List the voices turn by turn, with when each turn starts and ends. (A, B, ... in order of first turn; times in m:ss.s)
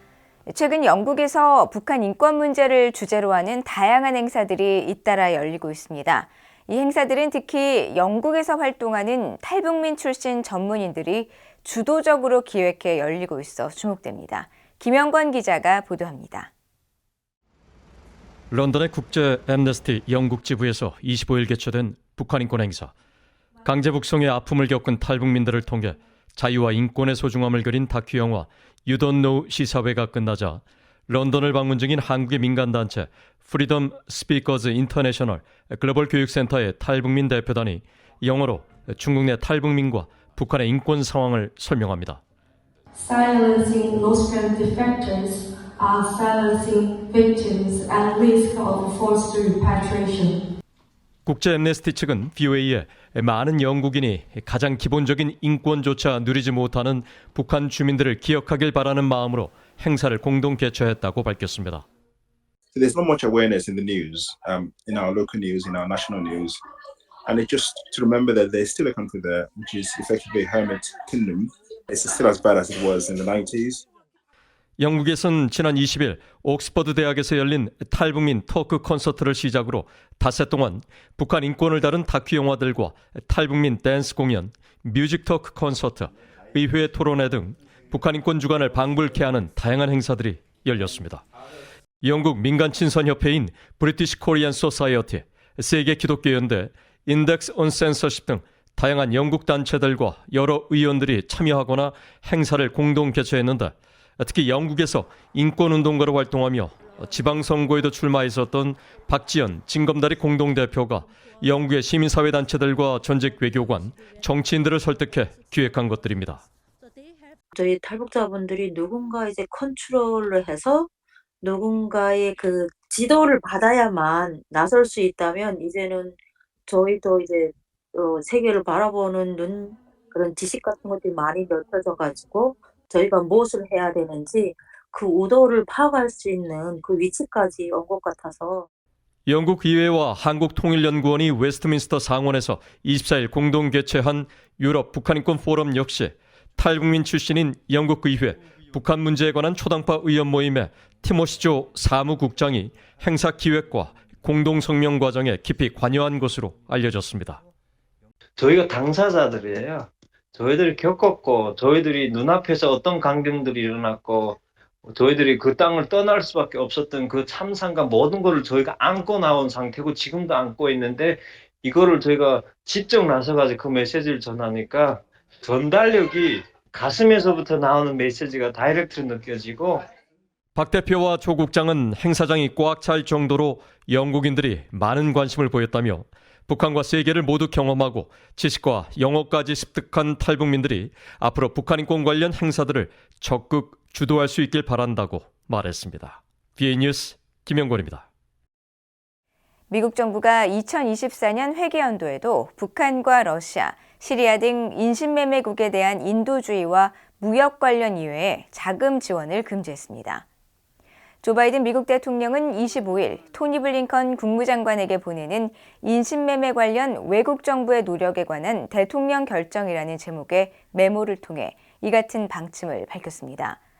0:00.4-0:16.5 A
0:18.5-0:22.9 B
0:23.6-0:42.2 B
0:43.0-0:50.4 C
0:51.2-1:01.8 B
1:02.7-1:06.6 D
1:07.2-1:13.8 D
1:14.8-1:31.2 B
1:32.0-1:56.4 B
1:57.5-2:00.9 E
2:01.4-2:18.7 E
2:19.3-2:37.4 B
2:38.4-2:59.8 F
3:00.5-3:18.0 B
3:19.7-3:30.2 A
3:31.2-3:43.6 A